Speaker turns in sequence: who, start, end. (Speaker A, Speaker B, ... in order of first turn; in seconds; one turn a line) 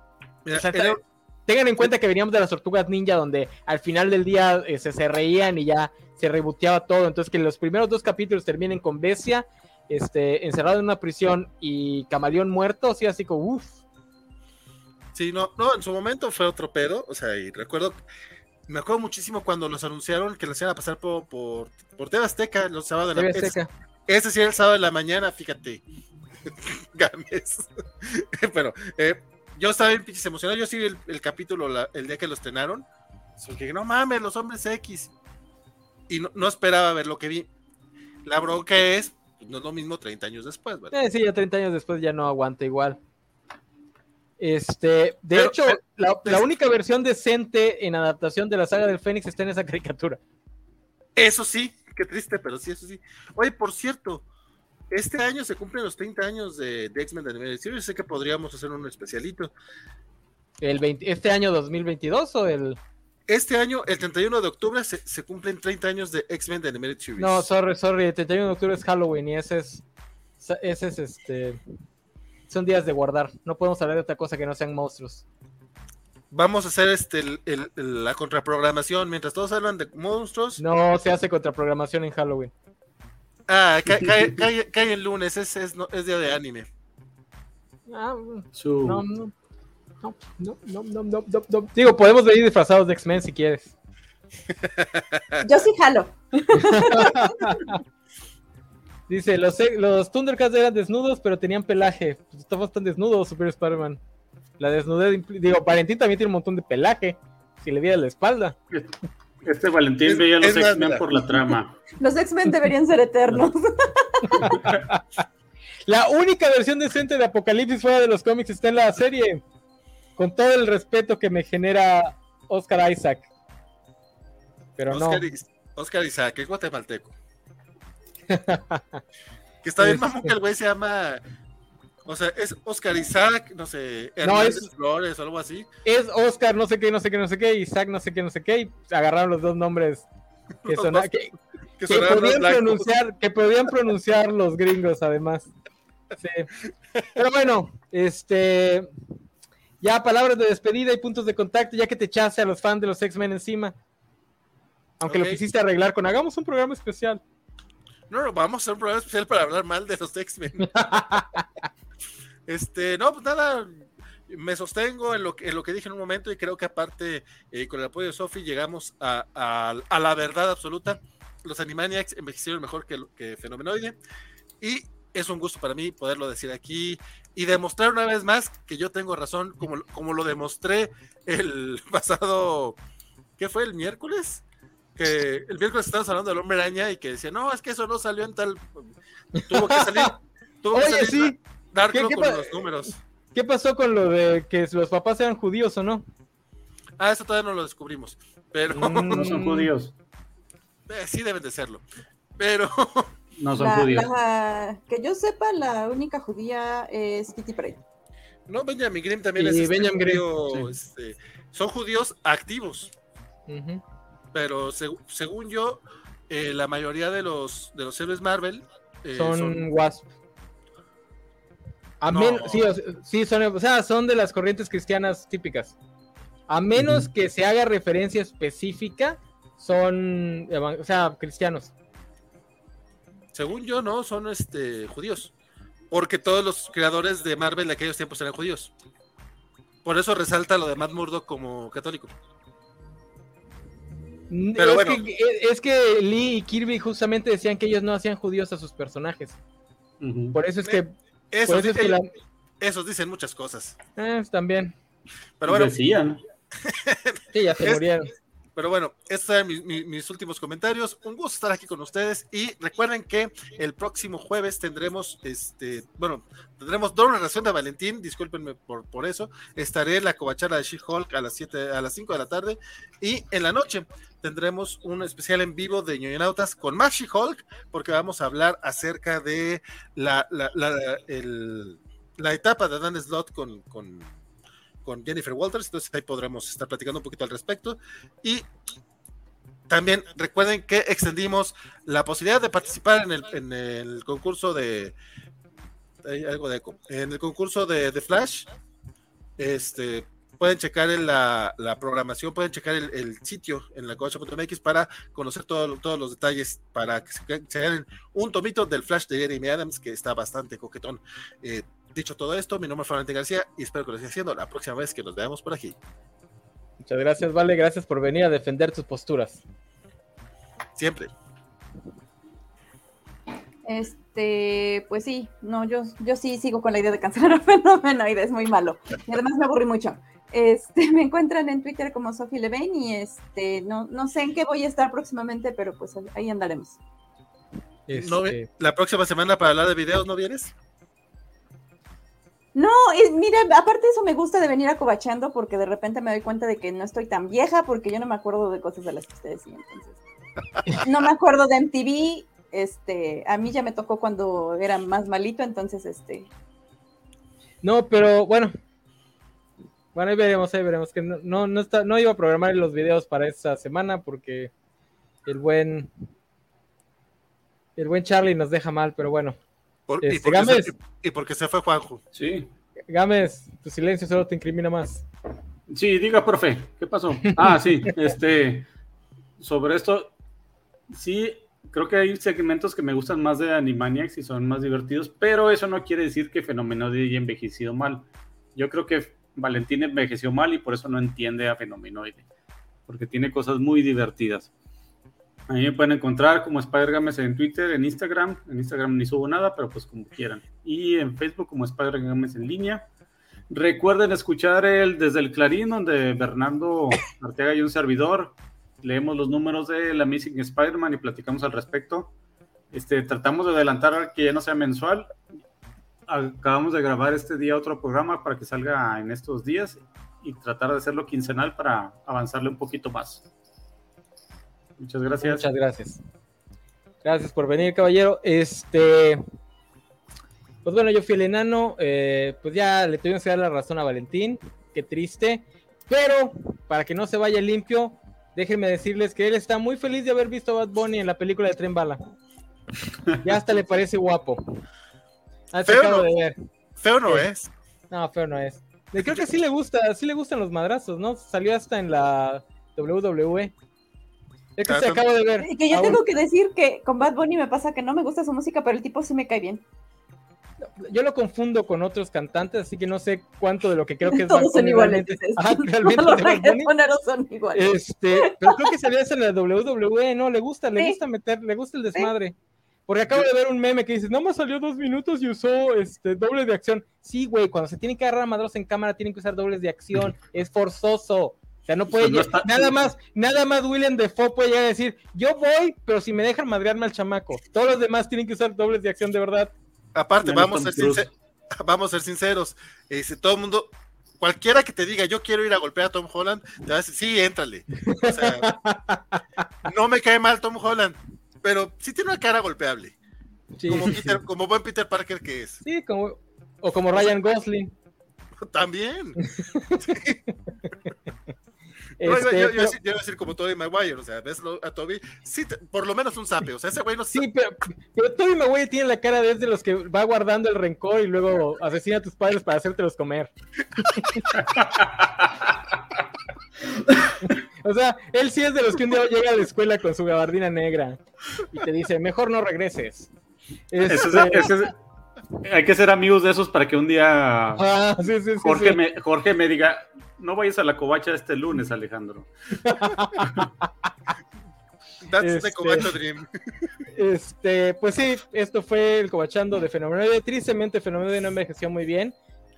Speaker A: 0.4-1.0
Speaker B: 0.5-13.8
Speaker A: 15.1-18.0
Speaker A: 18.7-23.5
Speaker B: 23.1-23.7
Speaker A: 24.1-25.8
Speaker A: 26.4-32.9
Speaker A: 33.4-35.1
Speaker A: 36.1-37.5
Speaker A: 38.2-40.9
Speaker B: 40.9-43.0
Speaker B: 44.4-50.2
Speaker A: 45.3-46.5
Speaker A: 51.1-54.2
Speaker A: 54.9-59.5
Speaker B: 60.6-62.8
Speaker A: 63.3-67.5
Speaker B: 67.2-69.8
Speaker B: 70.4-71.6
Speaker B: 72.5-75.2
Speaker A: 76.3-80.6
Speaker B: 80.6-82.5
Speaker A: 83.5-86.7
Speaker B: 87.9-89.3
Speaker C: 88.5-89.0
Speaker B: 90.0-93.7
Speaker A: 94.6-95.4
Speaker D: 95.4-97.5
Speaker B: 96.6-97.8
Speaker B: 99.1-104.0
Speaker B: 104.6-108.5
Speaker C: 109.4-111.8
Speaker A: 110.0-111.1
Speaker D: 112.0-114.5
Speaker B: 114.4-115.0
Speaker B: 115.9-119.4
Speaker B: 120.2-123.3
Speaker B: 124.8-125.2
Speaker A: 124.9-127.1
Speaker B: 128.3-129.0
Speaker A: 129.6-131.2
Speaker B: 129.8-130.3
Speaker A: 132.1-135.7
Speaker B: 134.2-134.7
Speaker B: 135.8-140.1
Speaker A: 140.6-142.9
Speaker B: 140.7-141.3
Speaker B: 141.9-145.5
Speaker B: 146.2-146.5
Speaker B: 147.1-148.9
Speaker B: 149.8-153.7
Speaker B: 155.0-157.2
Speaker A: 155.1-155.4
Speaker A: 158.1-161.2
Speaker B: 160.6-161.4
Speaker A: 162.5-174.0
Speaker A: 174.6-182.8
Speaker A: 183.4-184.4
Speaker A: 184.9-188.9
Speaker B: 189.3-190.1
Speaker A: 189.4-193.0
Speaker B: 190.7-191.4
Speaker B: 191.9-192.7
Speaker B: 193.3-196.0
Speaker A: 197.0-199.3
Speaker B: 198.7-199.7
Speaker C: 199.1-199.9
Speaker A: 200.9-201.8
Speaker A: 202.4-203.1
Speaker C: 203.4-204.1
Speaker D: 203.6-207.8
Speaker A: 208.5-212.9
Speaker B: 209.4-210.3
Speaker B: 213.5-213.8
Speaker A: 214.3-219.6
Speaker B: 219.1-220.1
Speaker B: 222.0-225.7
Speaker A: 222.1-222.7
Speaker B: 226.5-231.7
Speaker C: 226.8-227.1
Speaker A: 233.3-235.3
Speaker A: 235.9-238.7
Speaker A: 239.8-242.1
Speaker B: 244.3-249.4
Speaker A: 244.5-245.0
Speaker C: 250.0-250.4
Speaker B: 250.3-250.9
Speaker A: 250.6-252.0
Speaker B: 251.4-252.1
Speaker A: 252.6-253.8
Speaker B: 254.0-254.7
Speaker A: 255.4-255.8
Speaker C: 255.5-256.2
Speaker A: 256.6-257.9
Speaker B: 257.3-258.1
Speaker A: 258.6-284.1
Speaker A: 284.8-288.5
Speaker A: 289.7-294.9
Speaker A: 296.0-298.5
Speaker A: 299.4-315.8
Speaker B: 316.8-319.4
Speaker A: 320.8-321.1
Speaker D: 323.6-336.8
Speaker B: 337.9-338.5
Speaker A: 337.9-340.5
Speaker D: 342.5-350.0
Speaker D: 350.8-356.3
Speaker B: 357.6-358.5
Speaker B: 359.9-364.5
Speaker B: 365.2-365.9
Speaker B: 367.8-369.4
Speaker A: 369.9-372.0
Speaker B: 370.0-370.7
Speaker C: 372.1-372.5
Speaker B: 372.9-375.0
Speaker C: 375.7-378.6
Speaker C: 379.4-380.1
Speaker C: 380.9-392.2
Speaker C: 392.9-394.5
Speaker C: 395.5-402.9
Speaker C: 403.5-412.1
Speaker C: 412.7-415.1
Speaker C: 416.1-423.2
Speaker C: 424.8-425.5
Speaker B: 425.2-426.0
Speaker B: 427.0-429.2
Speaker B: 430.6-442.0
Speaker B: 443.2-444.4
Speaker B: 445.5-446.3
Speaker A: 445.6-446.1
Speaker A: 446.8-447.5
Speaker B: 447.9-453.5
Speaker A: 449.0-449.2
Speaker B: 454.6-456.0
Speaker A: 454.6-455.0
Speaker D: 455.4-459.6
Speaker B: 460.8-466.7
Speaker D: 464.1-468.6
Speaker B: 467.5-472.3
Speaker B: 472.9-489.5
Speaker C: 481.9-482.7
Speaker A: 489.9-498.5
Speaker C: 490.2-491.1
Speaker B: 497.8-499.2
Speaker A: 499.6-502.9
Speaker B: 503.6-503.9
Speaker A: 503.7-505.6
Speaker B: 505.6-507.7
Speaker A: 508.4-509.2
Speaker B: 509.2-510.3
Speaker A: 509.8-510.2
Speaker B: 512.0-512.8
Speaker A: 512.0-517.2
Speaker B: 517.1-524.5
Speaker C: 524.4-524.9
Speaker B: 527.2-533.1
Speaker B: 533.7-534.5
Speaker C: 533.9-534.7
Speaker C: 535.4-537.6
Speaker B: 537.6-538.8
Speaker C: 538.4-542.3
Speaker B: 542.6-543.5
Speaker A: 545.0-546.4
Speaker B: 545.2-545.9
Speaker B: 546.9-552.1